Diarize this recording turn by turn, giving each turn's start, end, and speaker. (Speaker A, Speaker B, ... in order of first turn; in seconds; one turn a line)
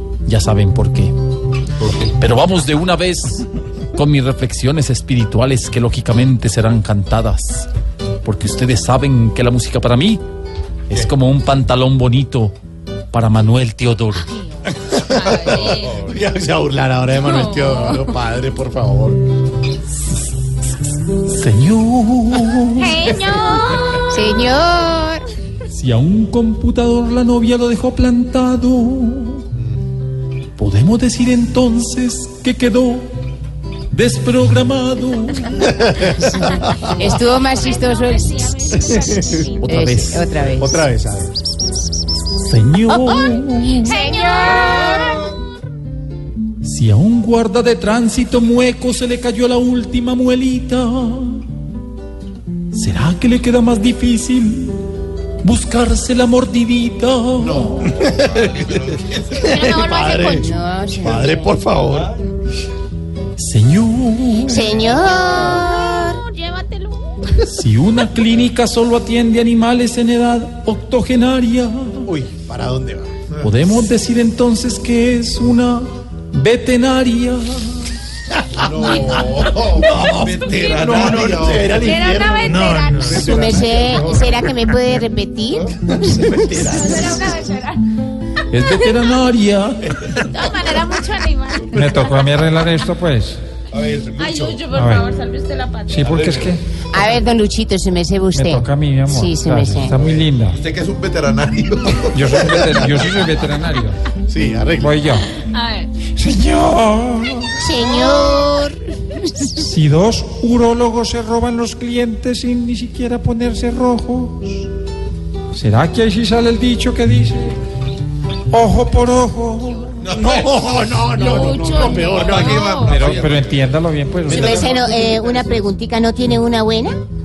Speaker A: 0.2-1.1
Speaker B: 1.8-2.1
Speaker A: 2.1-7.7
Speaker A: 8.2-10.2
Speaker A: 10.9-12.5
Speaker A: 13.1-14.3
Speaker C: 14.7-19.2
Speaker D: 14.9-16.0
Speaker D: 17.2-18.0
Speaker A: 21.0-23.2
Speaker D: 22.8-24.1
Speaker E: 22.8-25.3
Speaker A: 25.7-29.4
Speaker A: 30.6-33.1
Speaker A: 33.9-36.0
Speaker C: 35.6-36.9
Speaker D: 36.7-39.9
Speaker E: 36.8-40.9
Speaker C: 38.8-39.4
Speaker A: 39.6-40.3
Speaker C: 40.6-41.3
Speaker A: 42.3-44.0
Speaker E: 42.9-45.2
Speaker D: 43.8-45.2
Speaker A: 46.6-51.5
Speaker A: 52.7-54.9
Speaker A: 55.4-58.0
Speaker B: 57.4-59.5
Speaker C: 57.8-58.7
Speaker C: 59.3-60.5
Speaker D: 59.4-60.5
Speaker E: 60.0-61.7
Speaker C: 61.0-62.1
Speaker B: 61.0-62.3
Speaker A: 63.4-64.9
Speaker E: 64.5-66.2
Speaker D: 64.8-67.3
Speaker A: 67.3-72.1
Speaker C: 72.0-73.1
Speaker A: 73.4-77.9
Speaker C: 78.3-84.0
Speaker B: 78.5-82.1
Speaker D: 80.4-81.0
Speaker D: 81.7-83.2
Speaker E: 82.5-87.3
Speaker B: 82.9-84.5
Speaker C: 85.9-87.3
Speaker D: 86.7-87.8
Speaker A: 88.5-90.1
Speaker D: 90.2-92.1
Speaker F: 91.7-93.4
Speaker B: 93.7-94.7
Speaker D: 94.2-96.1
Speaker F: 94.7-95.1
Speaker F: 95.9-96.6
Speaker B: 96.0-96.6
Speaker E: 96.9-100.0
Speaker F: 98.3-100.6
Speaker B: 99.8-103.2
Speaker F: 102.1-104.0
Speaker C: 104.2-105.0
Speaker F: 104.8-105.3
Speaker D: 105.5-105.9
Speaker F: 106.0-107.6
Speaker E: 107.6-109.5
Speaker F: 109.5-114.6
Speaker F: 115.5-117.5
Speaker F: 118.5-120.0
Speaker B: 120.0-120.8
Speaker C: 120.0-122.7
Speaker D: 121.1-123.1
Speaker B: 122.0-123.7
Speaker F: 122.8-124.5
Speaker B: 124.2-125.7
Speaker E: 124.2-127.0